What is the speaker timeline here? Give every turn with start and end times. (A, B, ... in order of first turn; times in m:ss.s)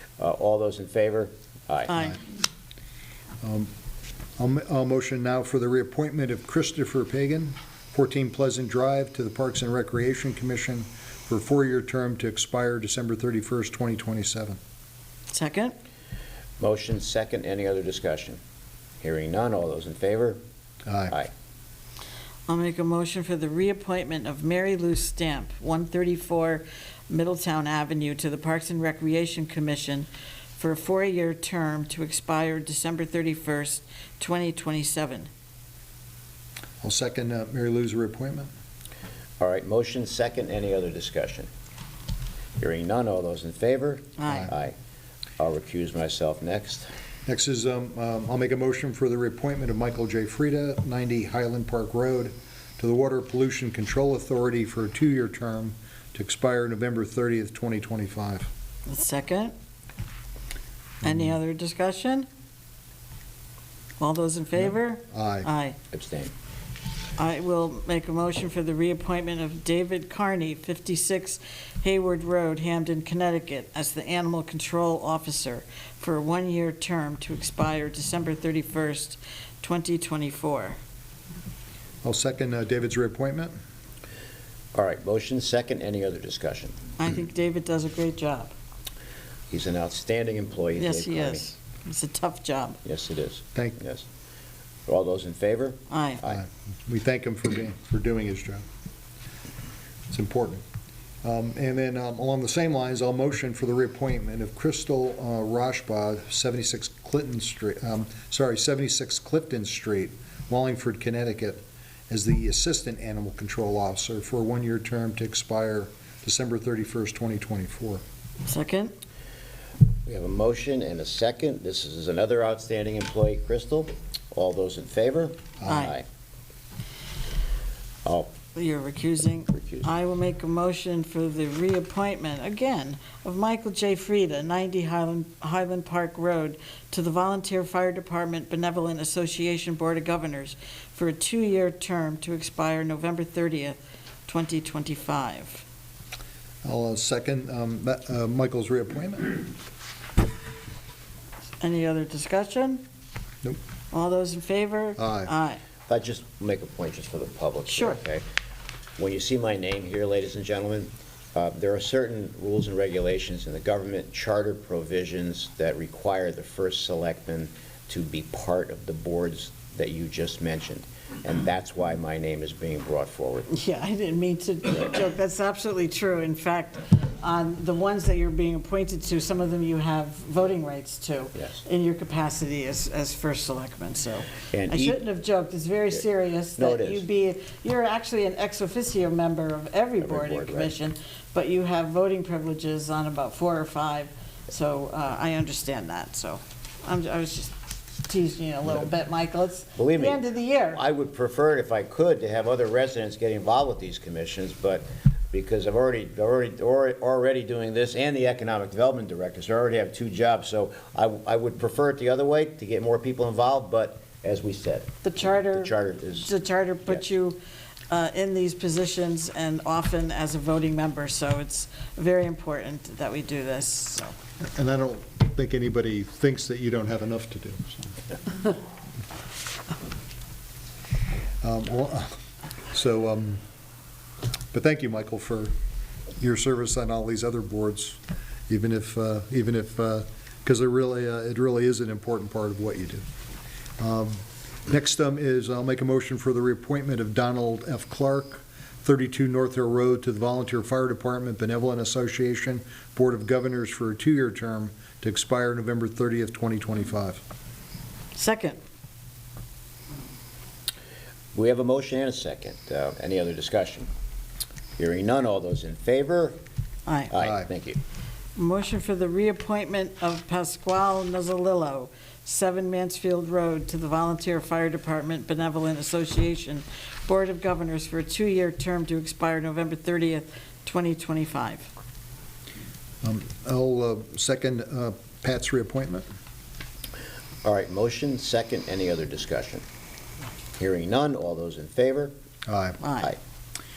0:00.2-0:02.0 A
0:01.9-0:02.2 B
0:03.4-0:03.7 C
0:04.4-0:14.6 C
0:15.3-0:15.7 B
0:16.6-0:18.4 A
0:19.0-0:20.4 A
0:20.9-0:21.1 C
0:22.5-0:35.3 B
0:36.8-0:38.5 C
0:39.4-0:41.5 A
0:42.6-0:44.7 A
0:44.2-0:44.5 B
0:45.4-0:46.9 A
0:47.3-0:58.5 C
0:58.9-0:59.5 B
1:01.0-1:02.3 B
1:04.0-1:05.8 B
1:05.1-1:05.5 C
1:05.9-1:06.3 A
1:07.2-1:20.8 B
1:22.0-1:23.5 C
1:24.7-1:26.7 A
1:27.0-1:28.5 B
1:29.5-1:31.4 A
1:30.8-1:32.8 B
1:32.8-1:34.1 A
1:34.9-1:36.4 A
1:35.9-1:36.2 B
1:36.2-1:38.6 C
1:40.1-1:40.6 C
1:41.2-1:58.0 C
1:58.4-1:58.9 B
2:00.0-2:06.0 A
2:05.6-2:05.9 C
2:05.7-2:05.9 B
2:08.0-2:08.3 A
2:08.5-2:25.6 B
2:26.6-2:29.5 C
2:31.6-2:32.8 B
2:33.9-2:35.6 B
2:35.0-2:35.3 C
2:35.9-2:38.2 A
2:37.7-2:38.0 B
2:39.0-2:53.5 A
2:53.5-3:17.5 B
3:04.5-3:05.0 A
3:06.6-3:07.0 A
3:10.0-3:10.7 A
3:18.0-3:20.8 B
3:19.8-3:20.2 A
3:20.7-3:36.3 A
3:35.0-3:37.4 B
3:37.9-3:44.1 B
3:44.5-3:47.9 C
3:51.4-3:52.1 C
3:52.7-3:53.4 C
3:54.5-3:55.5 C
3:56.2-4:03.0 C
4:03.8-4:17.2 C
4:18.1-4:18.6 B
4:21.3-4:23.9 A
4:24.8-4:26.4 A
4:26.9-4:27.1 B
4:27.1-4:27.8 A
4:27.2-4:27.4 C
4:28.4-4:41.7 B
4:43.0-4:46.0 C
4:47.4-4:49.6 A
4:50.6-4:52.1 A
4:52.5-4:52.8 C
4:52.8-4:53.2 B